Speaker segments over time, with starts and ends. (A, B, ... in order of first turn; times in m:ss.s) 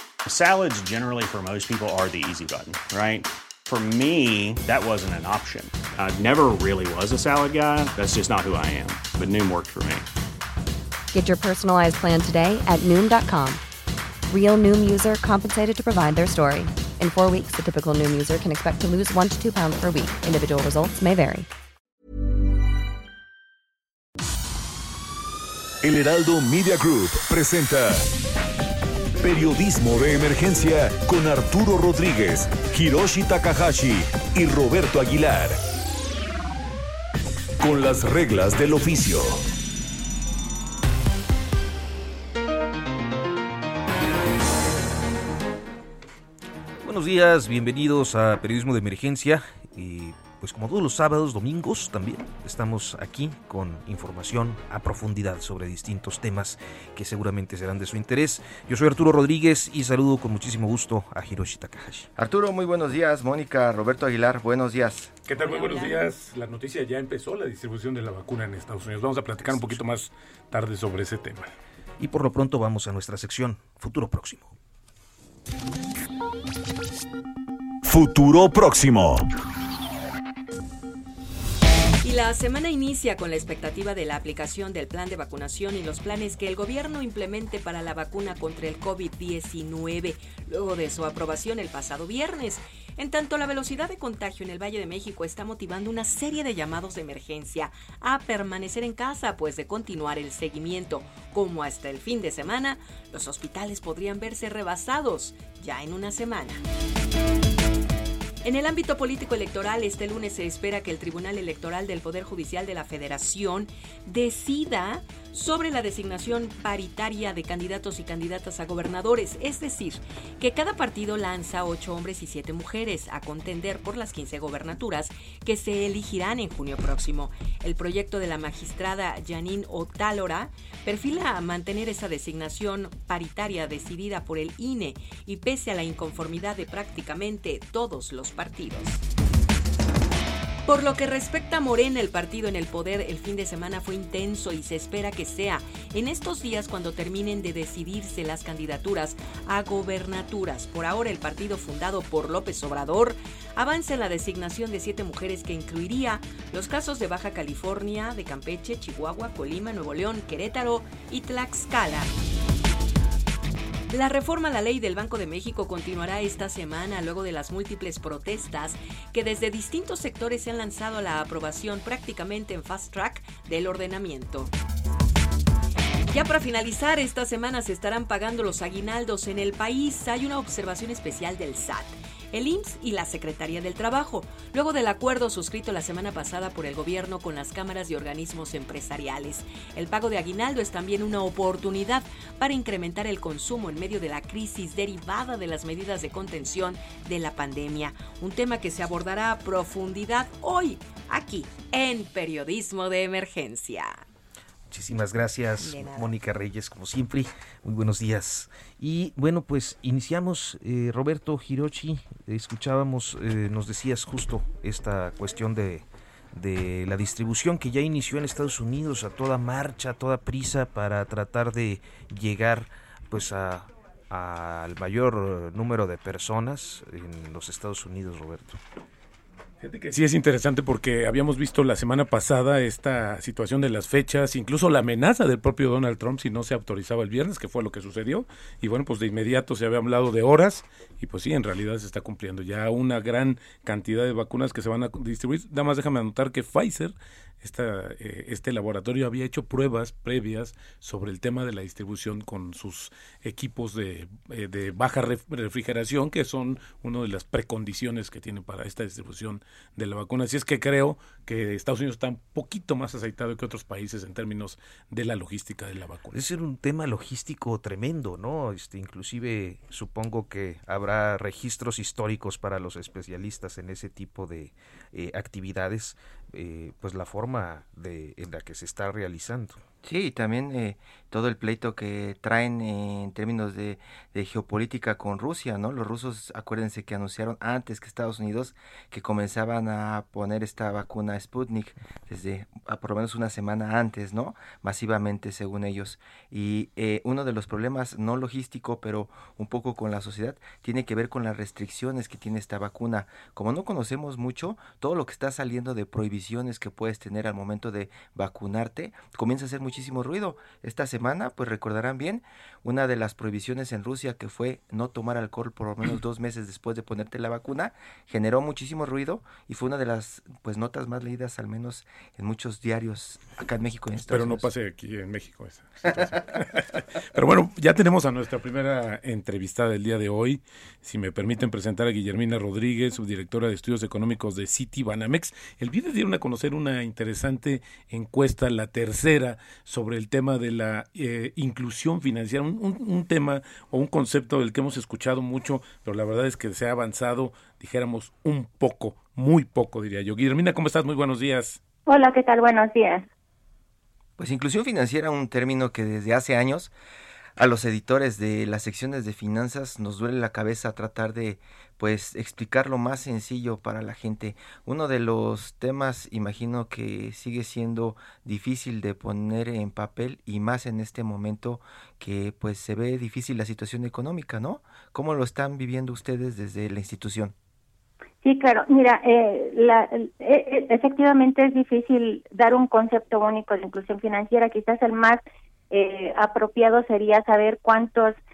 0:00.2-0:10.1 A
0:11.1-0:13.6 B
0:14.3-0:21.5 B
0:25.8-0:28.1 C
0:29.2-0:35.6 C
0:37.6-0:39.4 C
0:46.8-1:02.1 D
1:02.2-1:05.1 E
1:05.2-1:11.5 F
1:05.4-1:06.0 G
1:12.0-1:14.5 D
1:17.8-1:19.2 C
1:22.0-1:46.6 G
1:48.4-2:19.0 G
2:20.6-2:42.1 G
2:43.9-2:54.5 G
2:56.1-3:24.0 G
3:24.7-3:48.6 D
3:25.6-3:26.1 G
3:49.6-4:26.2 F
4:26.1-4:39.6 D
4:39.8-5:24.4 E
5:24.0-5:51.6 F
5:51.9-5:53.1 H
5:54.2-5:56.7 E
5:57.4-6:17.3 E
6:18.2-6:28.2 H